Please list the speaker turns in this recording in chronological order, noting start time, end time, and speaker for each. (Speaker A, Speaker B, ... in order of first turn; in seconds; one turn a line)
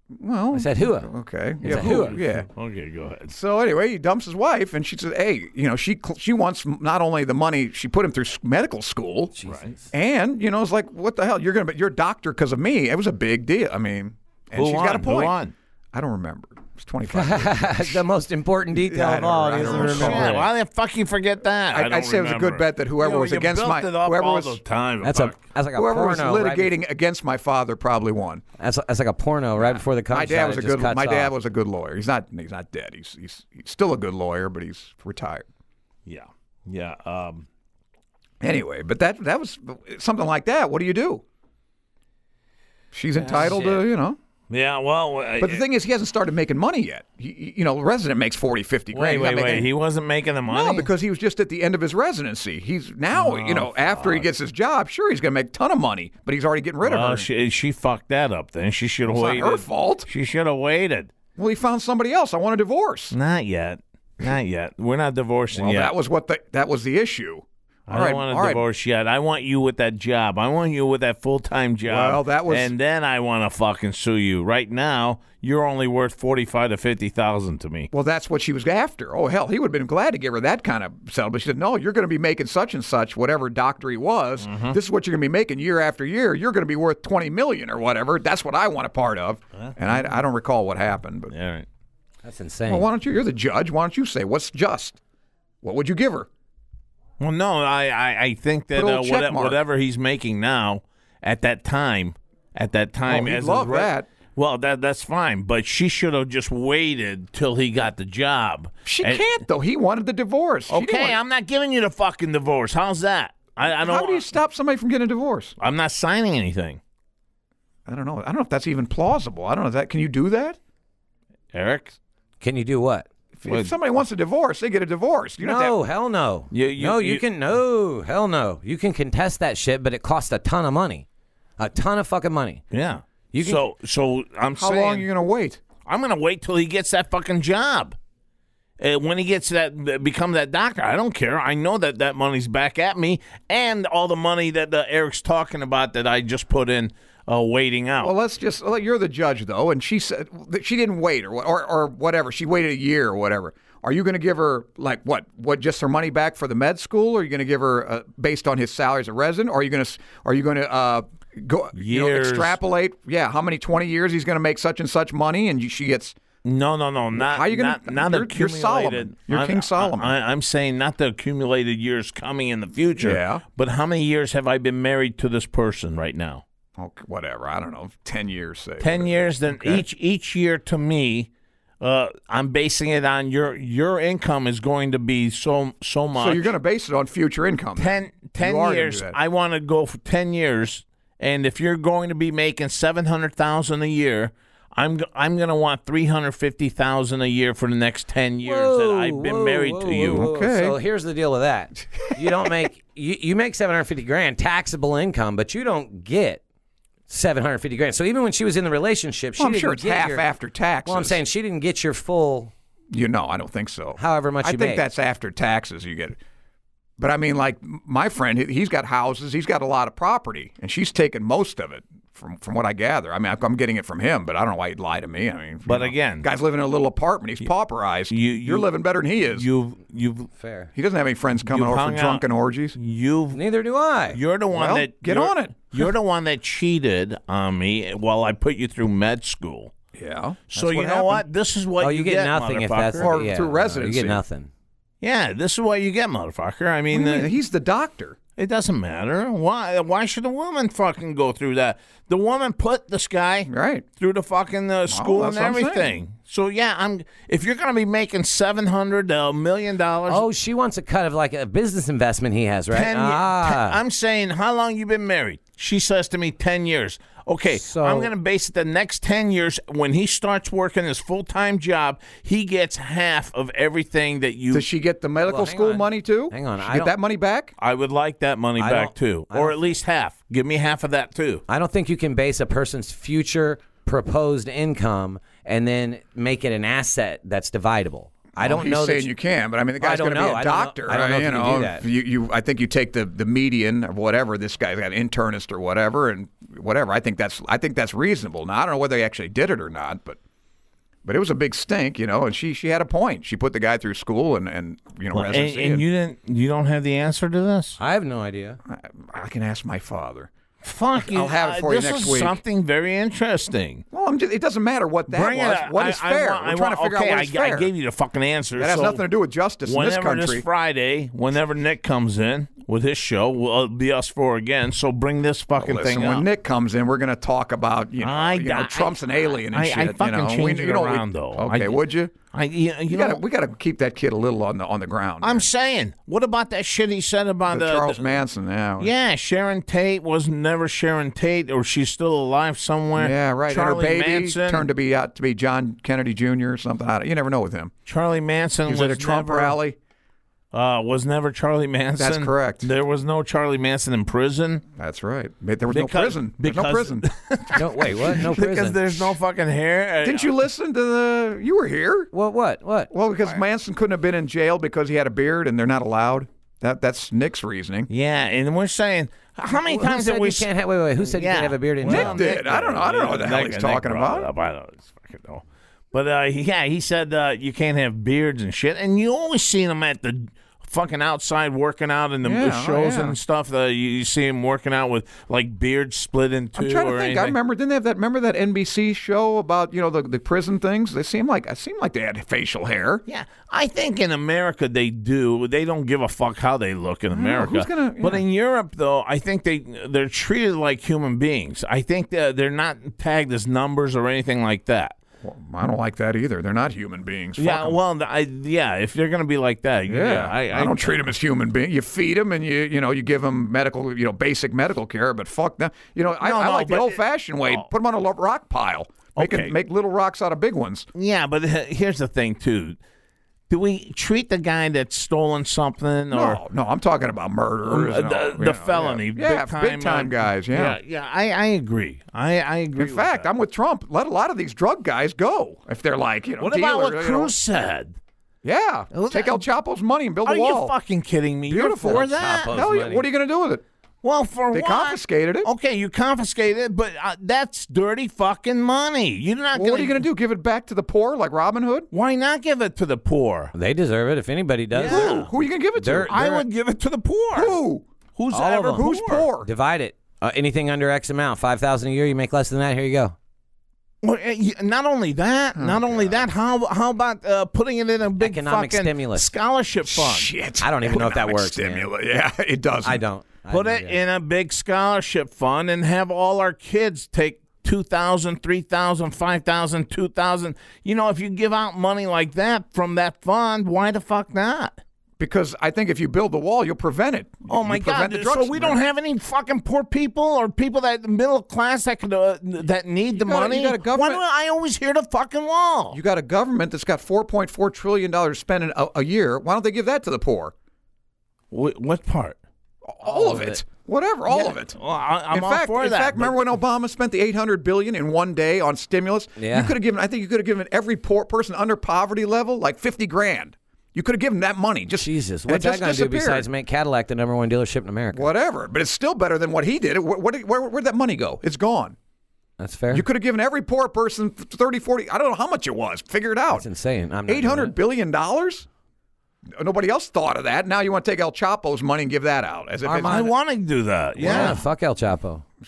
Speaker A: 0.1-2.5
Speaker B: 0.5-1.1
Speaker B: 1.6-2.2
Speaker C: 1.6-3.3
Speaker A: 3.3-9.3
Speaker B: 9.3-9.9
Speaker C: 9.4-9.7
Speaker A: 9.9-15.4
Speaker C: 14.5-15.5
Speaker A: 15.9-18.0
Speaker B: 17.1-20.4
Speaker A: 18.7-20.5
Speaker C: 19.6-25.4
Speaker A: 21.7-24.6
Speaker B: 25.0-26.7
Speaker A: 25.7-28.4
Speaker B: 28.6-31.3
Speaker A: 29.7-35.5
Speaker C: 36.1-37.5
Speaker A: 38.4-41.2
Speaker A: 42.9-44.2
Speaker C: 43.2-43.7
Speaker C: 44.5-45.6
Speaker A: 45.4-49.7
Speaker C: 48.9-50.9
Speaker A: 50.5-57.3
Speaker C: 53.1-54.2
Speaker C: 56.8-61.1
Speaker A: 59.0-60.1
Speaker A: 61.4-63.1
Speaker C: 63.1-65.9
Speaker A: 65.5-68.6
Speaker C: 67.9-77.9
Speaker A: 71.8-72.7
Speaker A: 77.9-91.3
Speaker C: 84.4-84.8
Speaker C: 89.5-90.0
Speaker C: 91.3-91.7
Speaker B: 92.2-92.9
Speaker A: 92.7-95.0
Speaker A: 95.6-96.3
Speaker C: 97.2-109.4
Speaker A: 98.7-99.6
Speaker A: 103.0-104.1
Speaker A: 108.8-111.2
Speaker C: 110.7-114.3
Speaker A: 113.6-115.5
Speaker C: 115.6-116.8
Speaker A: 117.8-120.6
Speaker C: 121.5-122.0
Speaker B: 122.4-123.1
Speaker A: 123.3-125.7
Speaker C: 123.5-123.7
Speaker B: 125.4-131.1
Speaker C: 126.5-127.2
Speaker B: 131.6-132.6
Speaker C: 132.7-135.1
Speaker B: 133.3-133.6
Speaker A: 134.6-135.6
Speaker C: 135.8-137.9
Speaker C: 138.8-148.1
Speaker A: 148.0-166.2
Speaker C: 161.7-162.6
Speaker C: 166.4-176.4
Speaker A: 167.1-170.2
Speaker A: 173.0-173.4
Speaker A: 176.8-179.8
Speaker C: 178.8-181.3
Speaker C: 181.8-186.5
Speaker A: 186.1-189.2
Speaker C: 187.8-200.2
Speaker B: 198.4-206.4
Speaker A: 200.1-200.8
Speaker A: 202.2-202.5
Speaker B: 207.1-210.3
Speaker A: 209.4-211.2
Speaker B: 210.8-212.5
Speaker A: 212.9-216.2
Speaker B: 214.0-214.8
Speaker A: 217.0-229.5
Speaker C: 225.7-226.3
Speaker C: 228.1-228.7
Speaker C: 229.3-230.3
Speaker B: 230.3-230.7
Speaker A: 230.7-232.8
Speaker C: 231.4-232.2
Speaker C: 232.8-233.4
Speaker B: 233.3-234.2
Speaker C: 234.1-239.7
Speaker A: 234.5-235.9
Speaker A: 239.9-241.2
Speaker C: 240.5-243.1
Speaker B: 241.8-244.5
Speaker A: 243.0-244.2
Speaker C: 245.0-247.3
Speaker A: 246.9-248.2
Speaker C: 248.4-260.2
Speaker A: 253.5-253.8
Speaker A: 254.9-256.0
Speaker B: 260.1-263.8
Speaker C: 262.7-274.7
Speaker B: 267.5-268.1
Speaker A: 274.5-277.5
Speaker B: 275.2-276.9
Speaker C: 277.6-281.4
Speaker B: 278.6-279.8
Speaker B: 281.5-289.1
Speaker A: 288.4-300.2
Speaker B: 289.8-291.8
Speaker A: 301.0-305.8
Speaker C: 305.1-307.8
Speaker B: 307.8-308.6
Speaker A: 308.6-310.3
Speaker C: 310.6-313.8
Speaker A: 311.0-312.4
Speaker A: 313.9-317.7
Speaker C: 315.1-319.0
Speaker A: 318.6-320.4
Speaker C: 319.6-326.2
Speaker A: 325.6-332.1
Speaker C: 328.0-333.2
Speaker A: 332.9-335.5
Speaker C: 335.2-338.1
Speaker A: 337.5-338.9
Speaker C: 338.8-344.7
Speaker A: 342.9-347.7
Speaker C: 347.9-349.6
Speaker A: 348.6-349.8
Speaker C: 350.5-354.6
Speaker A: 352.0-352.7
Speaker A: 354.8-357.1
Speaker C: 355.7-360.3
Speaker B: 357.5-359.1
Speaker A: 360.0-362.1
Speaker B: 362.1-362.9
Speaker A: 362.9-367.9
Speaker C: 367.9-370.5
Speaker B: 369.6-372.3
Speaker C: 371.0-387.4
Speaker A: 371.8-374.3
Speaker A: 382.2-383.2
Speaker A: 386.5-393.0
Speaker C: 393.1-404.9
Speaker A: 397.1-398.2
Speaker A: 405.2-407.8
Speaker C: 407.4-411.0
Speaker A: 409.9-420.9
Speaker C: 416.2-417.7
Speaker C: 419.1-419.5
Speaker C: 420.9-422.8
Speaker C: 423.5-426.4
Speaker A: 426.1-430.8
Speaker C: 427.6-433.3
Speaker A: 432.8-437.3
Speaker C: 436.4-437.9
Speaker A: 438.4-440.7
Speaker C: 438.9-439.4
Speaker C: 440.2-442.6
Speaker A: 441.5-443.6
Speaker B: 441.8-443.1
Speaker C: 444.0-450.1
Speaker A: 444.5-445.5
Speaker A: 449.5-451.9
Speaker C: 451.9-453.5
Speaker B: 453.5-455.2
Speaker C: 454.7-455.3
Speaker A: 454.8-456.4
Speaker B: 455.8-456.4
Speaker C: 456.1-457.6
Speaker A: 457.3-459.5
Speaker C: 458.1-459.3
Speaker B: 458.3-458.9
Speaker B: 459.4-463.1
Speaker C: 464.0-470.3
Speaker A: 465.5-466.3
Speaker B: 468.2-469.3
Speaker A: 469.9-473.0
Speaker B: 470.6-471.9
Speaker B: 472.8-474.0
Speaker C: 473.5-484.8
Speaker A: 485.2-488.8
Speaker C: 487.5-496.0
Speaker A: 493.1-494.2
Speaker A: 495.9-500.5
Speaker C: 501.5-502.4
Speaker A: 502.9-504.8
Speaker B: 503.0-503.6
Speaker C: 504.3-506.4
Speaker A: 505.3-516.5
Speaker B: 509.4-509.7
Speaker B: 515.0-518.3
Speaker A: 518.1-522.0
Speaker B: 522.6-523.0
Speaker A: 522.9-526.6
Speaker B: 526.5-527.7
Speaker A: 527.3-528.7
Speaker A: 529.5-533.3
Speaker B: 532.8-533.3
Speaker C: 533.0-534.6
Speaker B: 534.2-535.4
Speaker A: 534.2-534.6